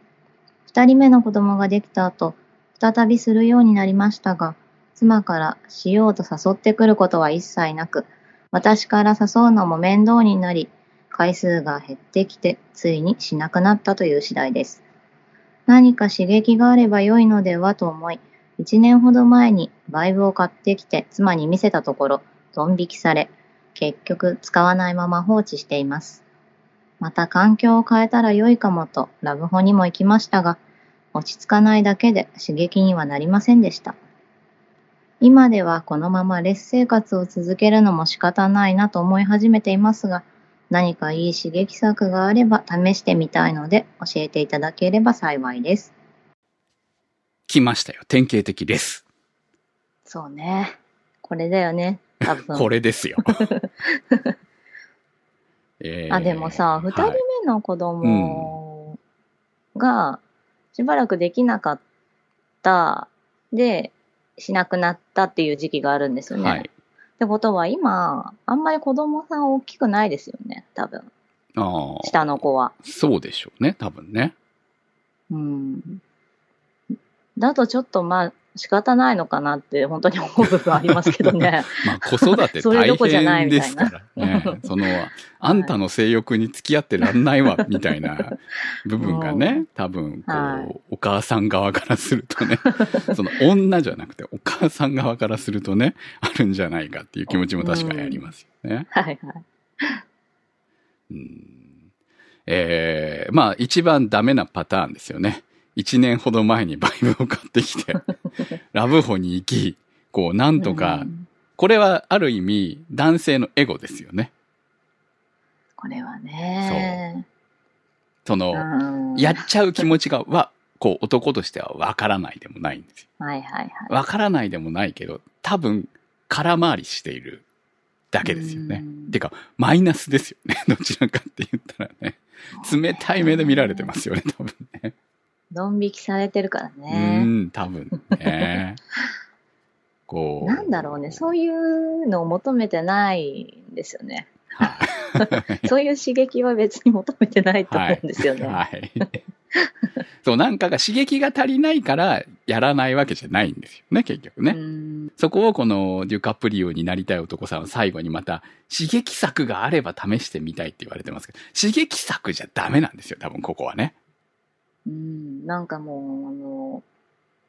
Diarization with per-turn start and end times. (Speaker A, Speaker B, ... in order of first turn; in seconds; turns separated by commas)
Speaker A: 0.7-14.8, Speaker A: 15.7-26.2, Speaker A: 27.0-30.6, Speaker A: 31.1-34.0, Speaker A: 35.2-45.9, Speaker B: 47.5-49.0, Speaker A: 50.1-52.7, Speaker B: 52.3-53.5, Speaker A: 53.4-54.3, Speaker B: 55.8-57.2, Speaker A: 56.1-59.0, Speaker B: 58.0-58.6, Speaker A: 59.8-60.2, Speaker A: 60.7-61.8, Speaker A: 62.6-66.7, Speaker B: 66.3-66.7, Speaker A: 67.2-71.1, Speaker B: 71.6-74.3, Speaker A: 72.0-72.8, Speaker A: 75.3-76.0, Speaker A: 77.4-84.7, Speaker B: 80.5-98.9, Speaker A: 85.4-85.8, Speaker A: 87.1-87.6, Speaker A: 89.0-89.7, Speaker A: 90.3-90.7, Speaker A: 92.7-93.1, Speaker A: 97.6-98.3, Speaker A: 98.9-100.0, Speaker B: 101.1-101.7, Speaker B: 102.5-108.0, Speaker B: 108.7-114.3, Speaker A: 110.6-111.3, Speaker A: 115.8-117.2, Speaker B: 116.6-117.0, Speaker B: 118.2-123.0, Speaker A: 118.5-119.4, Speaker A: 123.2-123.9, Speaker B: 123.9-127.5, Speaker B: 128.1-134.9, Speaker A: 128.2-129.2, Speaker A: 132.6-133.9, Speaker A: 135.5-137.3, Speaker B: 136.9-138.8, Speaker B: 140.1-141.3, Speaker A: 140.4-148.6, Speaker B: 144.6-145.7, Speaker B: 147.7-149.2, Speaker B: 150.2-154.6, Speaker A: 154.5-155.1, Speaker B: 155.2-163.9, Speaker A: 164.9-166.8